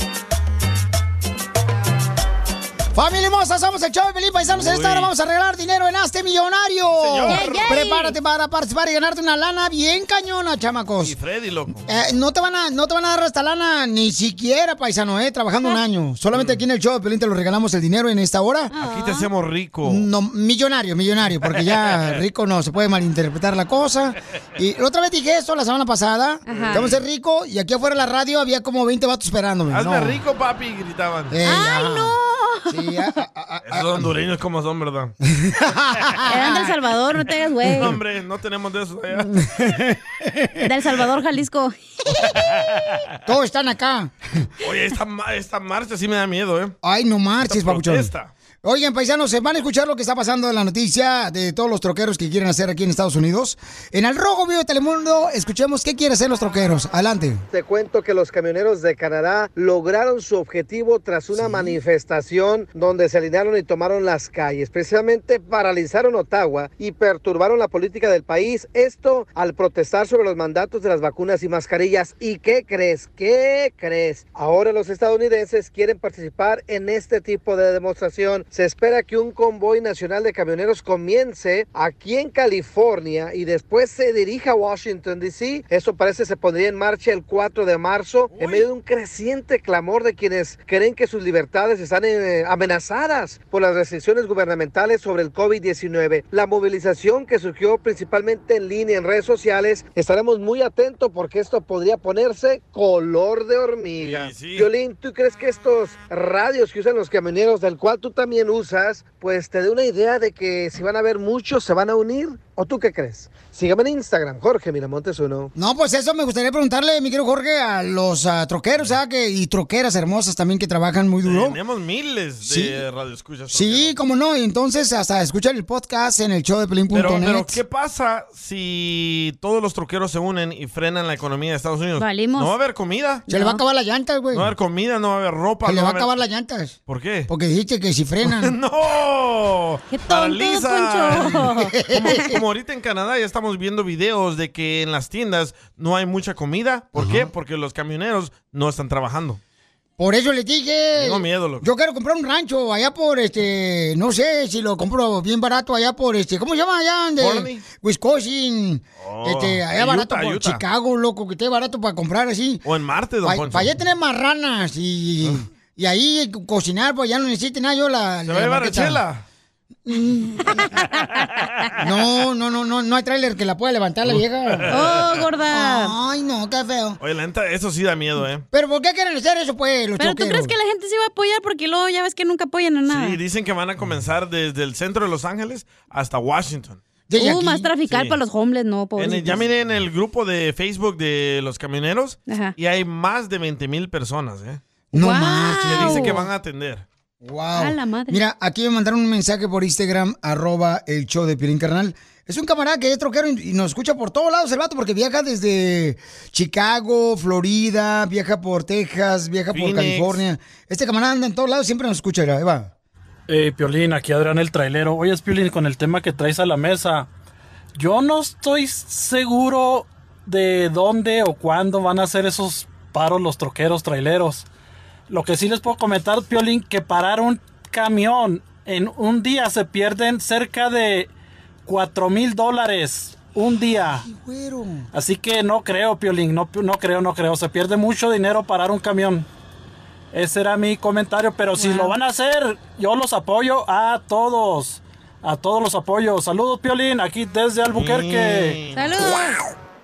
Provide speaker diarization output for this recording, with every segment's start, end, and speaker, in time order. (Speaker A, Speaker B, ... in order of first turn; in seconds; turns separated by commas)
Speaker A: 2.9-11.2, Speaker B: 4.5-5.1, Speaker B: 7.0-7.8, Speaker C: 7.3-8.2, Speaker B: 11.0-11.9, Speaker A: 11.8-18.7, Speaker B: 16.3-16.6, Speaker C: 18.7-19.3, Speaker B: 18.8-20.0, Speaker A: 19.8-30.2, Speaker B: 21.4-22.2, Speaker C: 26.4-26.8, Speaker B: 26.5-27.0, Speaker B: 29.7-31.4, Speaker A: 31.3-32.1, Speaker C: 31.4-32.7, Speaker A: 32.6-34.1, Speaker B: 33.6-35.1, Speaker A: 35.3-36.7, Speaker C: 36.3-37.9, Speaker B: 37.7-39.4, Speaker A: 39.3-40.6, Speaker C: 40.6-42.3, Speaker B: 42.5-42.9, Speaker A: 43.2-44.1, Speaker B: 44.6-46.7, Speaker A: 46.8-48.1, Speaker B: 47.4-48.3, Speaker A: 48.6-57.4, Speaker D: 57.5-115.5, Speaker A: 61.4-61.7, Speaker B: 88.3-88.7, Speaker B: 104.0-104.7, Speaker A: 115.5-121.6, Speaker B: 121.2-124.0, Speaker A: 122.4-122.8, Speaker A: 123.5-127.6, Speaker B: 126.9-133.3, Speaker C: 132.0-132.5, Speaker A: 133.3-134.5, Speaker C: 133.3-133.6, Speaker B: 134.3-136.1, Speaker A: 135.6-136.8, Speaker B: 136.9-137.3, Speaker A: 137.3-138.5, Speaker B: 138.2-149.4, Speaker C: 139.9-142.2, Speaker A: 141.3-142.3, Speaker A: 146.9-147.3, Speaker A: 150.0-162.6, Speaker B: 151.0-151.7, Speaker B: 157.2-157.6, Speaker B: 159.0-160.6, Speaker B: 162.6-163.7, Speaker A: 163.2-169.0, Speaker B: 168.2-169.2, Speaker A: 169.8-170.5, Speaker A: 171.8-174.8, Speaker B: 174.0-175.2, Speaker C: 174.7-175.9, Speaker A: 175.5-177.0, Speaker B: 177.0-178.4, Speaker A: 178.5-180.5, Speaker C: 180.0-183.2, Speaker B: 182.9-186.8, Speaker A: 187.1-187.7, Speaker C: 187.2-189.4, Speaker B: 187.9-188.2, Speaker B: 188.9-194.6, Speaker C: 192.3-192.5, Speaker A: 194.9-196.2, Speaker C: 194.9-196.2, Speaker B: 195.6-196.8, Speaker A: 197.2-212.7, Speaker C: 197.6-198.2, Speaker B: 209.5-210.2, Speaker E: 213.3-217.1, Speaker E: 217.8-224.4, Speaker E: 225.1-231.1, Speaker E: 231.7-234.1, Speaker A: 234.0-234.9, Speaker E: 234.9-239.3, Speaker E: 240.1-248.6, Speaker C: 241.6-241.9, Speaker B: 247.7-249.1, Speaker C: 248.7-249.4